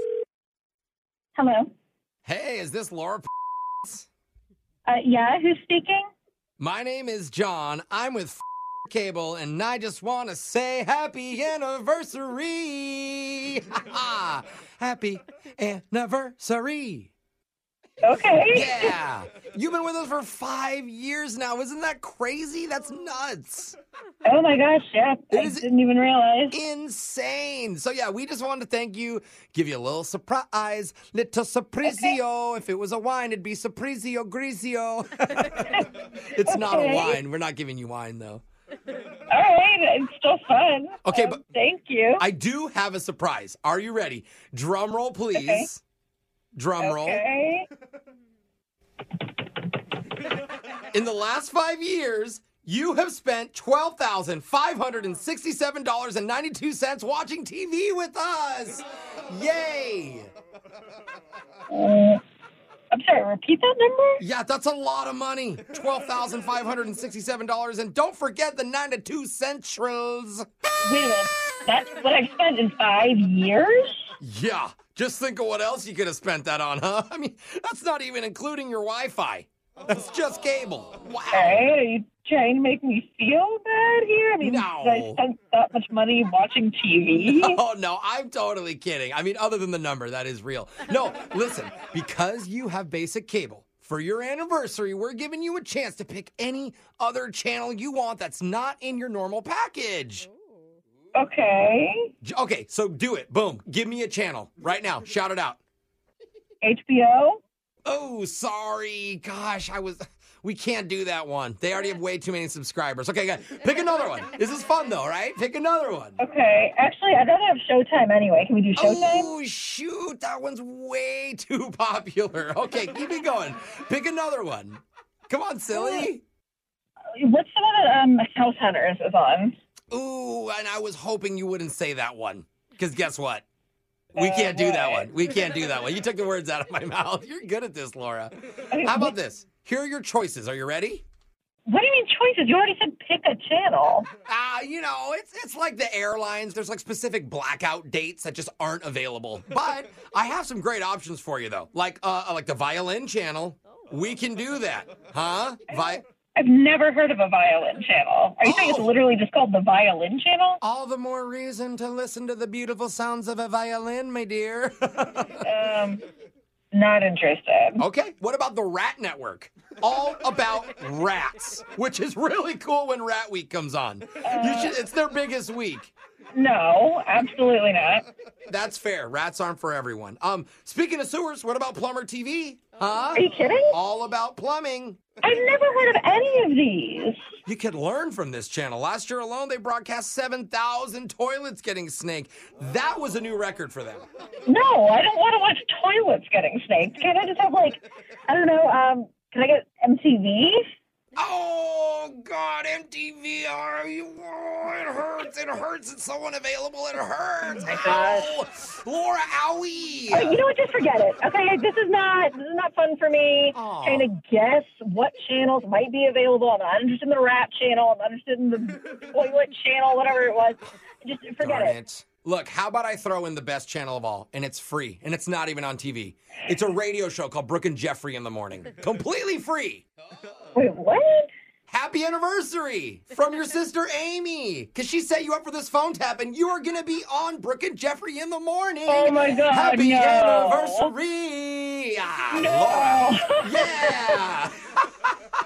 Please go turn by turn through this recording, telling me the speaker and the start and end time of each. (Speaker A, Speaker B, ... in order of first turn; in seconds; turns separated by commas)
Speaker A: 1.3-1.7, Speaker B: 2.2-3.3, Speaker A: 4.8-6.1, Speaker B: 6.6-17.1, Speaker A: 18.0-18.9, Speaker B: 18.5-23.8, Speaker A: 24.2-26.6, Speaker B: 25.3-25.7, Speaker B: 26.5-38.4, Speaker A: 31.8-32.1, Speaker A: 36.4-37.2, Speaker A: 39.3-42.2, Speaker B: 41.0-41.4, Speaker B: 42.2-45.8, Speaker A: 45.3-45.7, Speaker B: 46.5-47.2, Speaker A: 46.8-47.7, Speaker B: 50.9-60.3, Speaker A: 61.7-62.2, Speaker A: 62.9-64.2, Speaker B: 64.2-70.4, Speaker A: 70.8-74.1, Speaker B: 74.2-81.7, Speaker A: 81.3-87.6, Speaker B: 84.4-85.2, Speaker B: 87.1-100.2, Speaker A: 101.1-102.1, Speaker B: 102.2-105.6, Speaker A: 106.6-107.4, Speaker B: 107.8-116.2, Speaker A: 116.2-119.3, Speaker B: 118.8-126.2, Speaker A: 125.7-126.1, Speaker A: 127.2-129.5, Speaker B: 129.9-133.4, Speaker A: 134.1-135.3, Speaker B: 134.2-141.0, Speaker A: 138.7-139.1, Speaker A: 141.7-144.1, Speaker B: 144.3-156.0, Speaker A: 155.7-160.6, Speaker B: 158.4-158.9, Speaker B: 160.6-165.4, Speaker A: 165.4-166.0, Speaker A: 166.7-167.8, Speaker B: 167.8-175.9, Speaker A: 174.2-174.8, Speaker A: 176.3-178.1, Speaker B: 178.5-185.0, Speaker A: 183.1-183.7, Speaker A: 185.2-187.2, Speaker B: 187.4-194.1, Speaker A: 194.4-200.6, Speaker B: 201.2-210.4, Speaker A: 207.5-208.4, Speaker A: 210.1-221.8, Speaker B: 213.5-214.1, Speaker B: 221.4-229.8, Speaker A: 230.5-231.3, Speaker B: 231.7-244.5, Speaker A: 238.9-240.9, Speaker A: 242.3-244.2